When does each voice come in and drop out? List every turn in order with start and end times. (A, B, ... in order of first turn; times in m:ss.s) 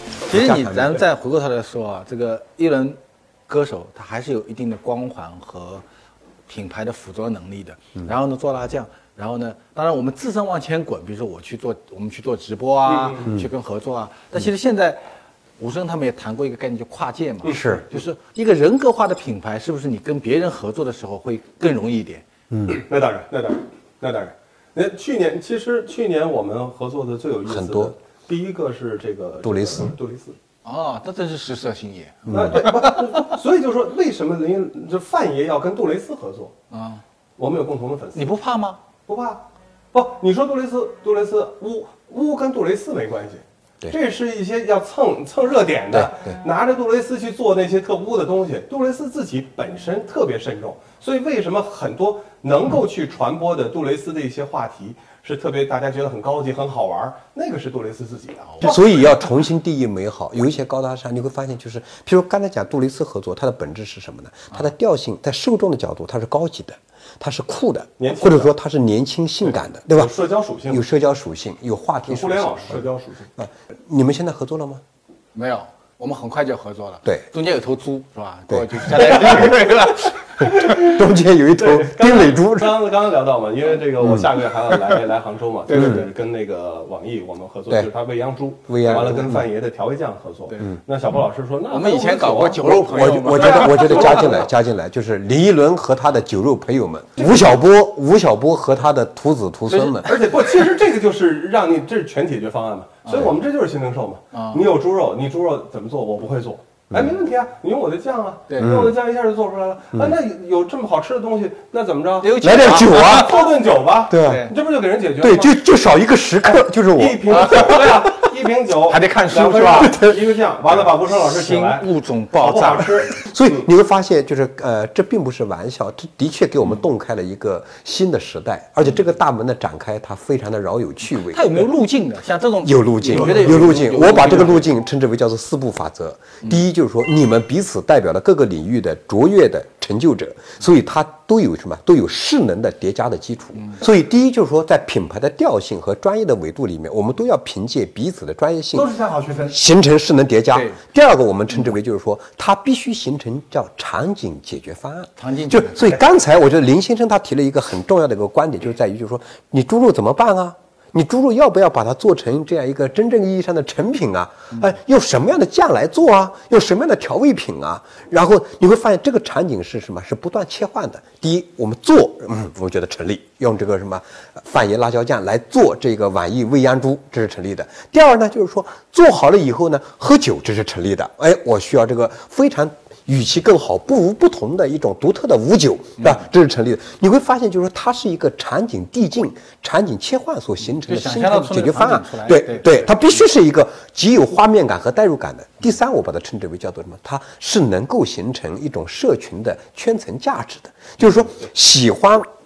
0:00.2-0:01.0 A
0:00.3-0:05.8 B
0:06.5-0:15.1 B
0:12.9-0:13.3 C
0:15.6-0:22.2 B
0:17.5-0:17.8 A
0:22.5-0:22.8 A
0:22.7-0:30.4 C
0:27.5-0:27.9 A
0:29.4-0:29.9 A
0:30.6-0:33.3 B
0:32.3-0:32.7 A
0:32.3-0:36.6 C
0:36.7-0:37.0 B
0:37.4-0:38.3 C
0:38.1-0:38.8 B
0:39.1-0:58.8 C
0:45.9-0:46.3 A
0:58.6-1:10.1 A
1:08.0-1:08.5 C
1:09.4-1:10.9 C
1:10.7-1:14.8 A
1:12.1-1:13.3 C
1:15.3-1:20.5 B
1:18.5-1:19.6 A
1:20.4-1:22.9 A
1:20.4-1:34.5 C
1:25.7-1:26.1 B
1:25.7-1:26.0 A
1:28.7-1:29.4 A
1:31.7-1:34.3 B
1:32.7-1:40.1 A
1:37.2-1:37.6 C
1:39.7-1:40.1 B
1:40.0-1:55.6 C
1:44.3-1:44.7 B
1:48.5-1:48.8 B
1:48.6-1:49.0 A
1:52.2-1:53.5 B
1:52.4-1:53.5 A
1:54.1-1:54.5 A
1:54.2-1:54.6 B
1:55.2-1:57.5 A
1:56.8-2:03.6 C
1:57.3-1:58.0 B
1:58.9-2:00.1 B
1:59.8-2:00.2 A
2:01.1-2:03.0 B
2:03.2-2:11.4 A
2:11.2-2:14.7 B
2:12.6-2:28.9 A
2:13.1-2:13.6 C
2:28.7-2:29.6 B
2:29.5-3:22.3 A
2:30.5-2:30.8 B
2:35.2-2:36.0 B
3:10.8-3:12.9 B